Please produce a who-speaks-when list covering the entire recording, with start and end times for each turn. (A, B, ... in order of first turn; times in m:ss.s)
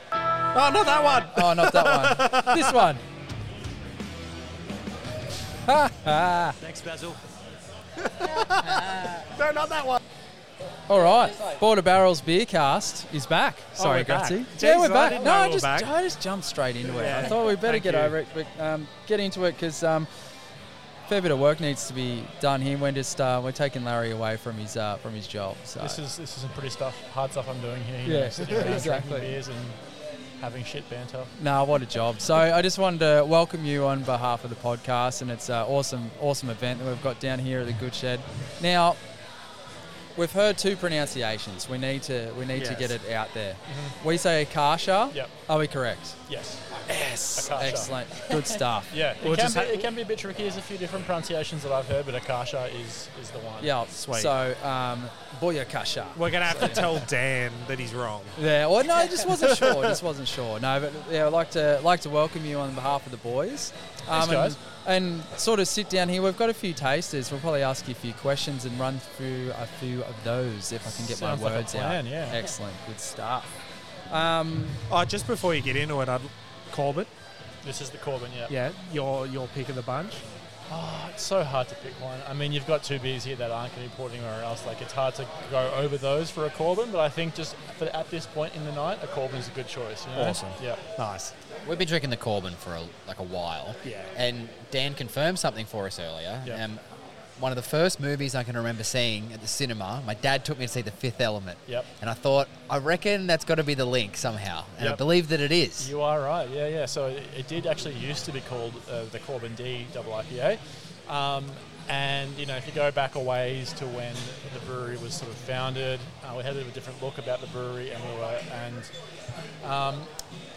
0:00.5-0:02.9 A
0:01.3-0:03.0 B
0:05.7-0:06.6 B
0:08.2-0:10.0 A
0:08.3-0:09.2 C
0:10.9-0:20.1 B
0:13.8-0:15.9 A
0:16.8-0:18.2 A
0:21.1-0:26.0 B
0:25.8-0:29.8 D
0:28.0-0:29.3 B
0:30.4-0:31.3 D
0:31.4-0:39.0 B
0:40.2-0:46.2 B
0:42.6-0:42.9 A
0:43.7-0:44.0 D
0:46.3-0:46.6 D
0:46.9-0:48.9 B
0:47.4-0:48.1 D
0:48.9-0:53.7 D
0:49.2-0:49.9 A
0:53.6-0:57.0 B
0:53.9-0:54.3 A
0:56.2-0:58.4 A
0:58.4-1:13.5 B
0:59.5-0:59.8 A
1:04.1-1:04.6 D
1:10.9-1:12.4 D
1:14.1-1:14.8 B
1:14.9-1:17.1 A
1:17.6-1:18.5 D
1:18.5-1:20.2 A
1:20.7-1:30.8 D
1:30.2-1:31.3 A
1:31.7-1:36.8 C
1:33.8-1:34.1 A
1:37.4-1:45.9 C
1:45.8-1:58.9 D
1:59.6-2:00.1 D